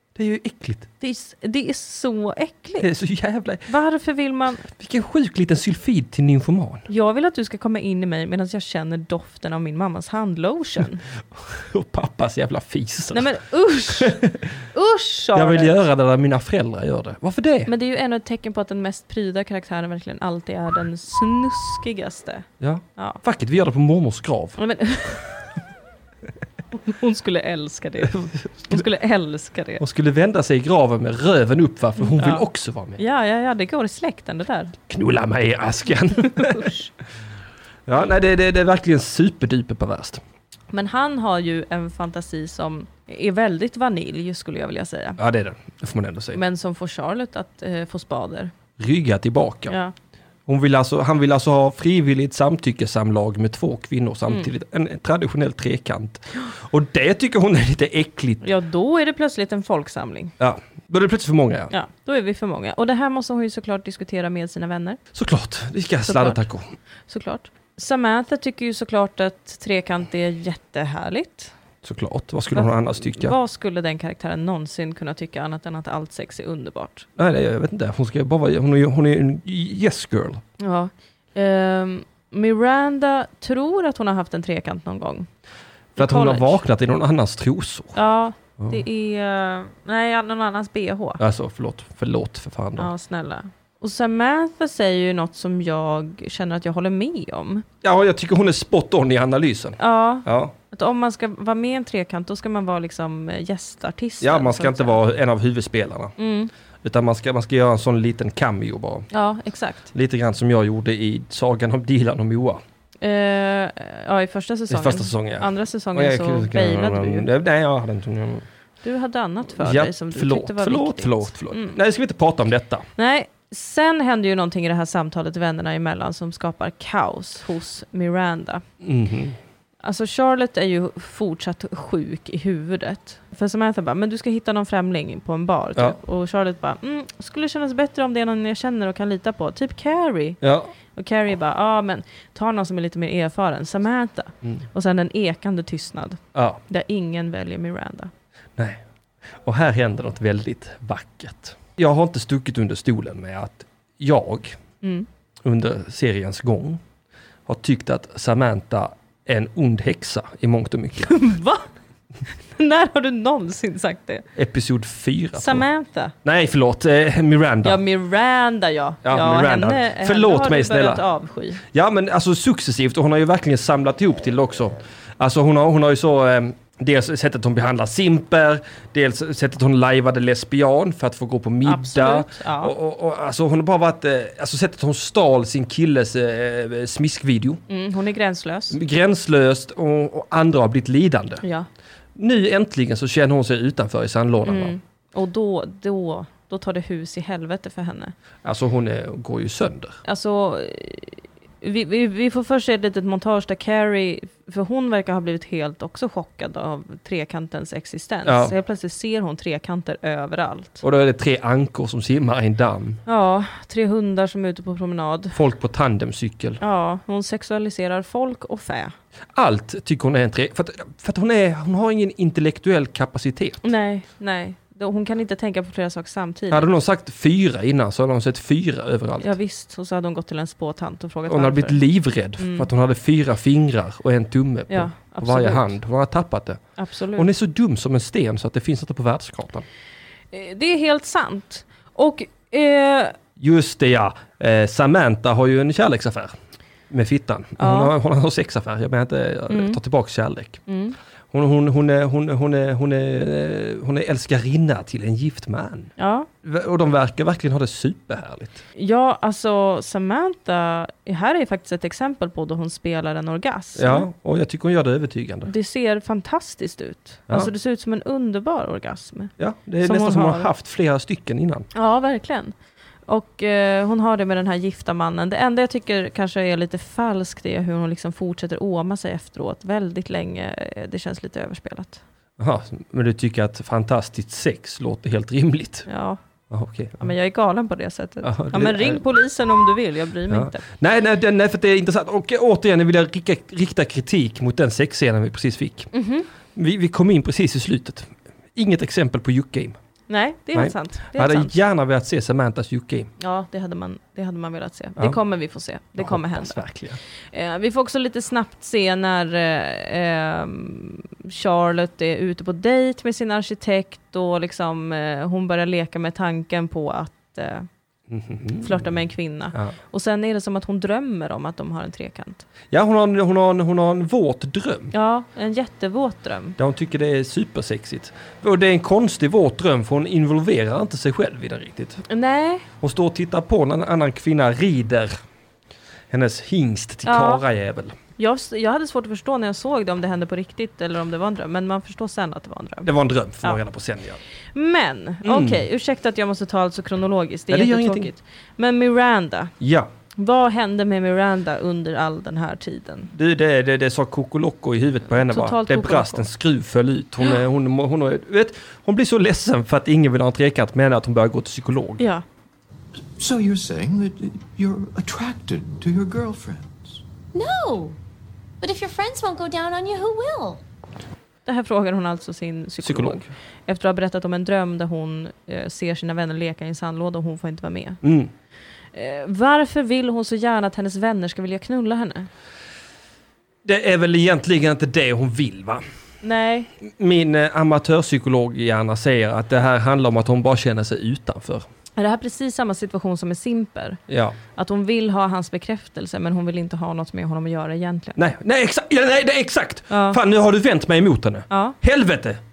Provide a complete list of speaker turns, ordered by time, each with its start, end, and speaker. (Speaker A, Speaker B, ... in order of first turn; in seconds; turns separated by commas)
Speaker A: 0.1-0.9, Speaker B: 1.0-2.9, Speaker A: 2.8-3.7, Speaker B: 3.7-4.7, Speaker A: 4.7-6.9, Speaker B: 6.9-11.0, Speaker A: 11.3-13.3, Speaker B: 13.1-14.2, Speaker A: 13.9-14.5, Speaker B: 14.7-15.8, Speaker A: 15.3-17.7, Speaker B: 17.7-23.2, Speaker A: 22.6-24.6, Speaker B: 24.6-25.4, Speaker B: 26.7-29.8, Speaker A: 29.8-33.0, Speaker B: 32.0-32.5, Speaker B: 33.0-34.7, Speaker A: 34.9-36.7, Speaker B: 36.2-36.9, Speaker A: 37.9-40.2, Speaker B: 40.7-45.2, Speaker A: 45.2-46.4, Speaker B: 46.3-48.5, Speaker A: 48.8-49.8, Speaker B: 49.7-49.9, Speaker A: 50.5-58.4, Speaker B: 58.4-60.3, Speaker A: 60.4-61.7, Speaker B: 61.7-65.0, Speaker A: 65.1-66.6, Speaker B: 66.0-66.4, Speaker B: 67.1-71.5, Speaker A: 71.8-73.3, Speaker B: 72.5-77.1, Speaker A: 77.2-80.4, Speaker B: 80.6-85.3, Speaker B: 86.0-86.6, Speaker A: 86.0-88.0, Speaker B: 87.9-91.2, Speaker A: 91.2-92.9, Speaker B: 92.8-97.7, Speaker A: 97.8-100.5, Speaker B: 99.8-105.0, Speaker A: 104.2-106.1, Speaker B: 106.2-106.5, Speaker A: 106.8-109.1, Speaker B: 109.1-109.9, Speaker A: 109.9-112.6, Speaker B: 113.0-117.3, Speaker A: 114.7-118.5, Speaker B: 118.8-121.8, Speaker A: 119.6-122.8, Speaker B: 123.0-128.6, Speaker A: 128.8-129.4, Speaker B: 129.8-140.4, Speaker A: 140.4-140.7, Speaker B: 140.9-148.1, Speaker A: 146.3-146.6, Speaker A: 148.6-148.8, Speaker A: 149.3-154.6, Speaker B: 154.8-155.1, Speaker A: 155.4-156.8, Speaker A: 157.4-161.2, Speaker B: 161.0-161.7, Speaker B: 162.5-164.3, Speaker A: 164.3-165.7, Speaker B: 165.3-166.1, Speaker A: 166.2-167.8, Speaker B: 167.6-171.6, Speaker A: 169.0-171.0, Speaker A: 171.7-187.6, Speaker B: 181.6-182.7, Speaker B: 187.7-188.8, Speaker A: 188.7-191.4, Speaker B: 191.4-191.7, Speaker A: 192.2-194.8, Speaker B: 194.4-198.1, Speaker A: 198.4-200.0, Speaker B: 200.0-210.8, Speaker A: 208.2-208.5, Speaker A: 210.8-213.0, Speaker B: 213.1-215.4, Speaker A: 215.3-216.6, Speaker B: 216.6-218.9, Speaker A: 219.3-223.6, Speaker B: 223.6-226.7, Speaker A: 226.5-229.3, Speaker B: 229.2-231.8, Speaker A: 231.3-236.6, Speaker B: 232.4-232.7, Speaker B: 234.7-235.7, Speaker B: 236.8-237.3, Speaker A: 237.2-239.7, Speaker B: 240.3-243.2, Speaker A: 243.4-246.3, Speaker A: 246.9-250.6, Speaker B: 247.6-247.9, Speaker B: 249.5-249.8, Speaker B: 250.7-251.0, Speaker A: 251.3-255.9, Speaker B: 256.0-256.3, Speaker A: 256.4-258.6, Speaker B: 258.8-264.1, Speaker A: 263.8-265.5, Speaker B: 265.4-270.5, Speaker A: 269.4-271.7, Speaker B: 271.7-272.5, Speaker B: 273.1-282.0, Speaker A: 282.4-285.9, Speaker B: 285.9-286.2, Speaker A: 286.5-287.1, Speaker B: 287.0-290.6, Speaker A: 288.2-289.0, Speaker A: 290.3-295.9, Speaker B: 295.9-296.3, Speaker A: 296.5-299.7, Speaker B: 300.1-301.5, Speaker A: 300.5-303.1, Speaker B: 303.2-306.6, Speaker A: 306.0-307.0, Speaker B: 307.3-317.7, Speaker A: 318.1-318.9, Speaker B: 318.6-322.4, Speaker A: 322.7-324.9, Speaker B: 324.9-326.6, Speaker A: 326.6-332.0, Speaker B: 332.1-332.6, Speaker A: 332.8-335.1, Speaker A: 336.1-338.0, Speaker B: 337.1-337.4, Speaker B: 338.2-342.9, Speaker A: 342.8-344.2, Speaker B: 344.5-349.5, Speaker A: 345.2-345.6, Speaker A: 347.5-348.1, Speaker A: 349.6-349.9, Speaker B: 350.1-353.1, Speaker A: 353.1-362.0, Speaker B: 355.2-356.3, Speaker B: 362.0-362.2, Speaker C: 363.2-367.0, Speaker D: 367.3-367.9, Speaker D: 368.6-370.6, Speaker B: 371.4-378.0, Speaker A: 372.8-373.3, Speaker A: 378.0-378.3, Speaker B: 378.9-382.3, Speaker A: 383.6-385.8, Speaker B: 386.2-386.7, Speaker A: 386.8-391.6, Speaker B: 392.0-394.0, Speaker A: 394.1-394.4, Speaker B: 394.5-398.2, Speaker A: 398.1-402.4, Speaker B: 399.9-400.2, Speaker B: 401.5-401.8